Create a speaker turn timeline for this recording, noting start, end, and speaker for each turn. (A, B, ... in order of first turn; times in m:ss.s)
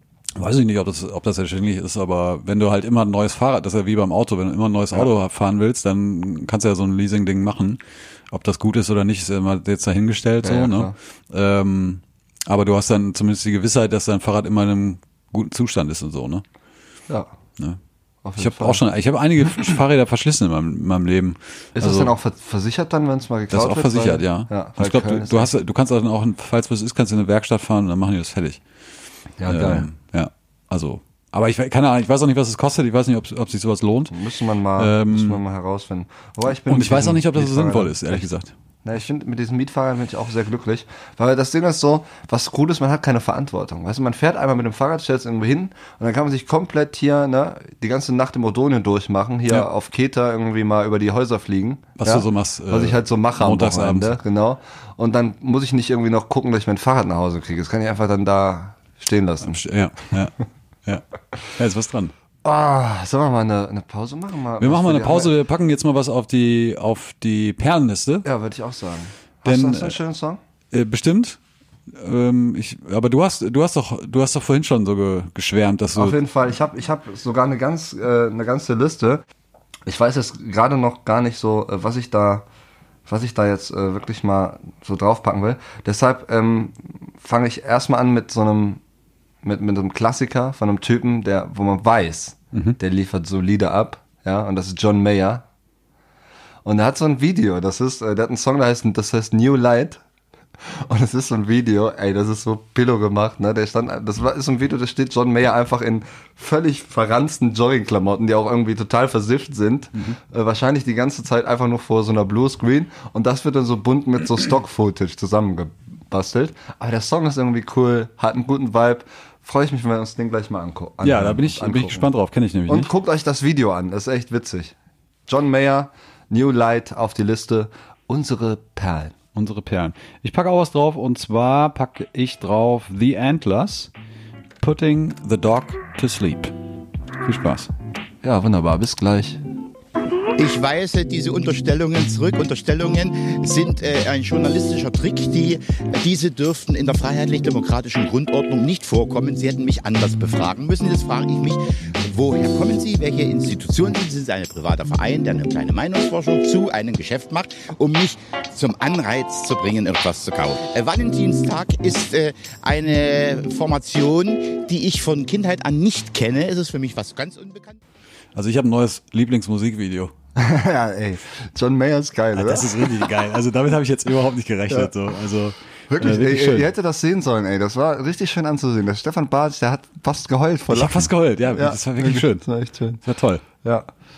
0:00.4-0:16.4 A
0:10.4-0:10.9 B
0:18.2-0:18.8 B
0:18.4-0:22.1 A
0:21.8-0:25.5 B
0:23.5-0:28.6 A
0:29.4-0:29.9 B
0:29.5-0:34.2 A
0:34.1-0:38.2 B
0:34.8-0:35.4 A
0:36.5-0:38.5 A
0:38.8-0:59.6 B
0:52.0-0:54.2 A
0:59.4-1:00.3 A
1:01.6-1:02.1 A
1:02.4-1:05.3 B
1:04.6-1:08.2 A
1:08.2-1:10.4 B
1:09.4-1:10.0 A
1:10.7-1:16.2 A
1:16.0-1:19.2 B
1:19.9-1:22.4 B
1:23.1-1:28.8 B
1:29.4-1:35.4 B
1:36.6-1:40.0 B
1:40.6-2:02.1 B
2:01.0-2:02.9 A
2:02.7-2:04.7 B
2:05.3-2:09.1 B
2:09.4-2:13.9 A
2:14.6-2:16.6 A
2:17.2-2:17.7 A
2:18.2-2:19.4 B
2:20.4-2:47.8 C
2:48.4-2:50.1 A
2:50.4-2:53.1 B
2:52.3-2:56.7 A
2:55.9-3:03.0 B
3:00.7-3:02.5 A
3:03.0-3:03.4 A